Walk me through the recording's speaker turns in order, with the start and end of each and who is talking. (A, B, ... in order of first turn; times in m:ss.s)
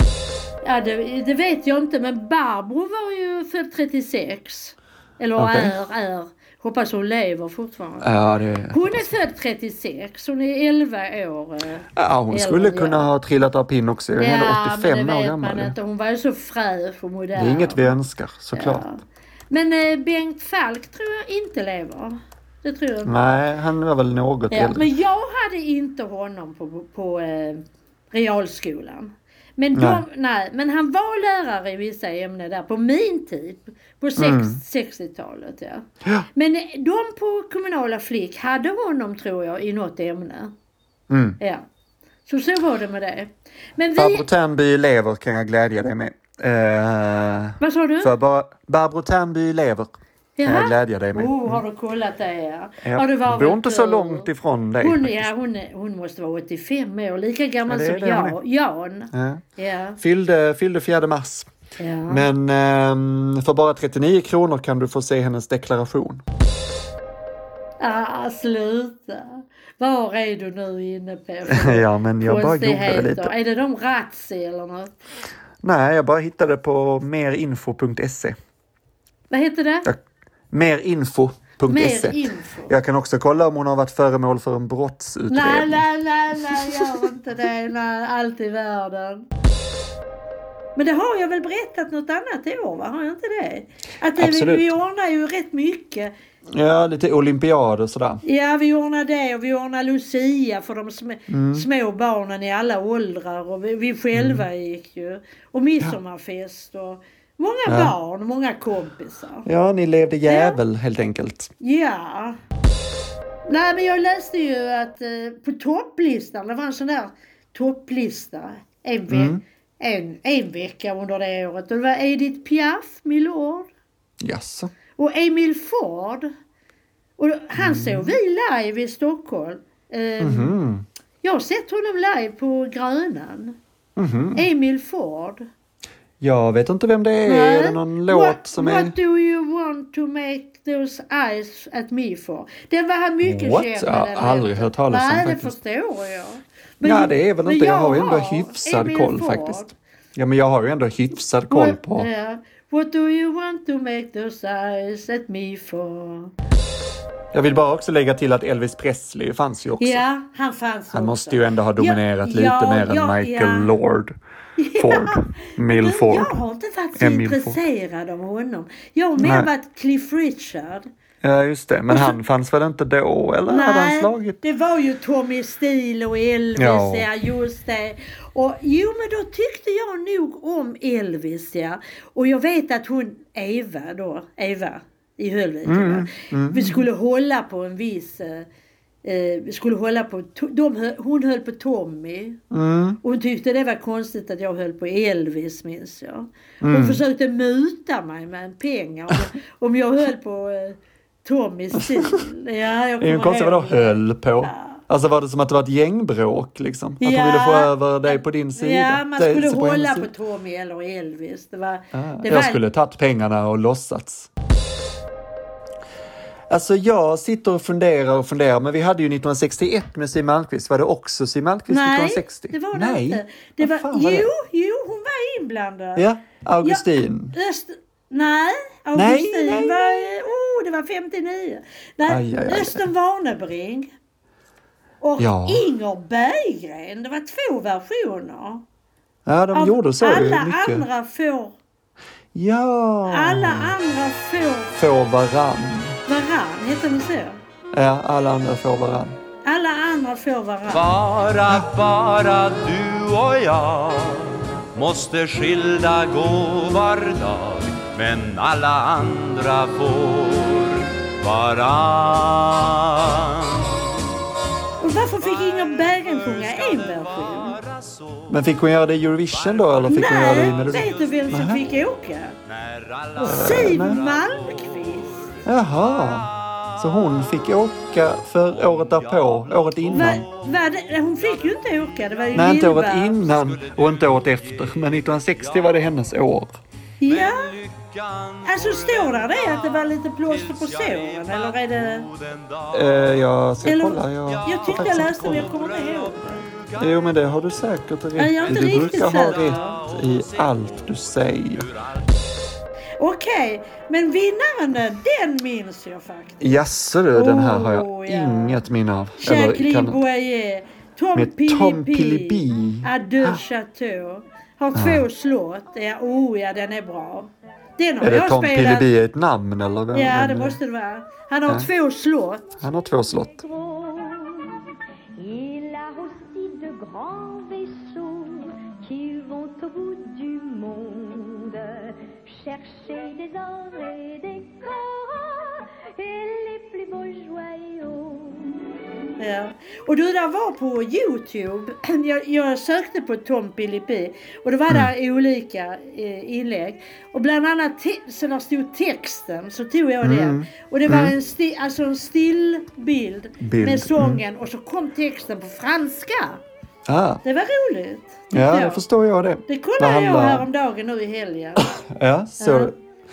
0:00.6-0:08.1 A
0:05.4-0:05.7 B
0:08.0-0:09.1 B
0:08.7-0:13.0 A
0:12.0-0:15.7 B
0:14.2-0:17.9 A
0:17.4-0:18.9 B
0:18.5-0:23.2 A
0:23.0-0:24.9 B
0:24.5-0:40.5 A
0:29.7-0:30.0 B
0:34.2-0:34.6 B
0:41.1-0:41.4 B
0:42.2-0:44.3 A
0:44.0-0:49.9 B
0:47.6-0:48.1 A
0:50.4-0:54.3 A
0:50.4-0:51.6 B
0:52.8-0:55.3 B
0:54.8-1:00.0 A
0:57.7-0:58.4 B
0:59.1-0:59.4 B
1:00.0-1:01.5 B
1:01.8-1:02.2 A
1:02.1-1:06.2 B
1:07.8-1:14.9 A
1:11.5-1:13.3 B
1:15.6-1:18.4 B
1:19.3-1:19.9 A
1:20.5-1:25.8 B
1:21.7-1:22.7 A
1:25.3-1:29.3 A
1:26.5-1:27.0 B
1:30.8-1:36.1 A
1:34.2-1:34.7 B
1:36.5-1:38.2 B
1:38.2-1:49.4 A
1:41.3-1:41.6 B
1:44.1-1:44.4 B
1:47.7-1:47.9 B
1:49.4-1:51.5 B
1:50.2-1:50.6 A
1:51.6-1:52.4 A
1:53.4-2:03.7 A
1:59.1-1:59.4 B
2:04.2-2:04.7 B
2:05.0-2:06.3 A
2:07.2-2:10.6 A
2:07.6-2:08.1 B
2:10.2-2:10.8 B
2:11.2-2:13.6 A
2:14.0-2:14.4 B
2:14.4-2:15.4 A
2:16.2-2:18.9 B
2:17.2-2:29.7 A
2:23.2-2:25.5 B
2:26.8-2:32.1 B
2:31.5-2:36.3 A
2:37.3-2:40.0 B
2:39.8-2:43.7 A
2:40.9-2:44.1 B
2:44.6-2:50.9 A
2:44.8-2:46.3 B
2:47.0-2:47.6 B
2:49.2-2:49.5 B
2:51.2-2:54.4 B
2:51.9-2:52.2 A
2:53.5-3:08.5 A
2:56.6-2:57.1 B
3:05.6-3:06.8 B
3:09.0-3:12.4 A
3:12.5-3:13.0 B
3:13.0-3:24.8 A
3:16.6-3:17.0 B
3:21.7-3:22.2 B
3:23.0-3:30.1 B
3:27.0-3:32.6 A
3:31.9-3:34.3 B
3:36.5-3:44.3 B
3:41.7-3:46.0 A
3:46.0-3:47.4 B
3:46.6-3:53.9 A
3:48.9-3:50.1 B
3:52.1-3:52.8 B
3:55.0-3:58.6 A
3:55.2-3:55.6 B
3:59.2-4:00.8 B
3:59.5-4:01.6 A
4:02.3-4:03.7 B
4:03.1-4:04.7 A
4:04.7-4:06.0 B
4:06.1-4:07.4 A
4:07.7-4:09.2 B
4:09.4-4:10.9 A
4:10.7-4:24.1 C
4:24.8-4:27.6 A
4:25.2-4:28.4 C
4:28.3-4:31.6 B
4:29.3-4:31.5 C
4:29.8-4:32.4 A
4:32.4-4:37.3 C
4:33.2-4:34.0 B
4:33.2-4:35.3 A
4:35.4-4:40.2 B
4:38.3-4:42.6 C
4:39.9-4:43.2 A
4:42.3-4:46.6 B
4:43.2-4:46.0 C
4:47.0-4:47.5 A
4:47.0-4:53.1 C
4:48.4-4:52.1 A
4:52.7-4:55.5 B
4:53.6-4:56.4 A
4:54.3-4:57.4 C
4:56.8-5:01.7 B
4:58.2-4:59.8 A
4:58.4-5:02.1 C
5:03.0-5:06.5 A
5:06.4-5:10.0 B
5:07.1-5:08.6 A
5:09.2-5:18.9 A
5:11.1-5:13.4 B
5:14.7-5:15.0 B
5:18.0-5:20.6 B
5:19.9-5:22.6 A
5:22.6-5:23.4 B
5:23.3-5:38.6 D
5:39.2-5:56.4 A
5:50.0-5:51.1 B
5:53.4-5:54.2 B
5:56.9-5:57.2 B
5:57.2-5:58.8 A
5:58.3-6:00.4 B
5:59.5-6:01.7 A
6:01.6-6:02.7 B
6:02.4-6:02.7 A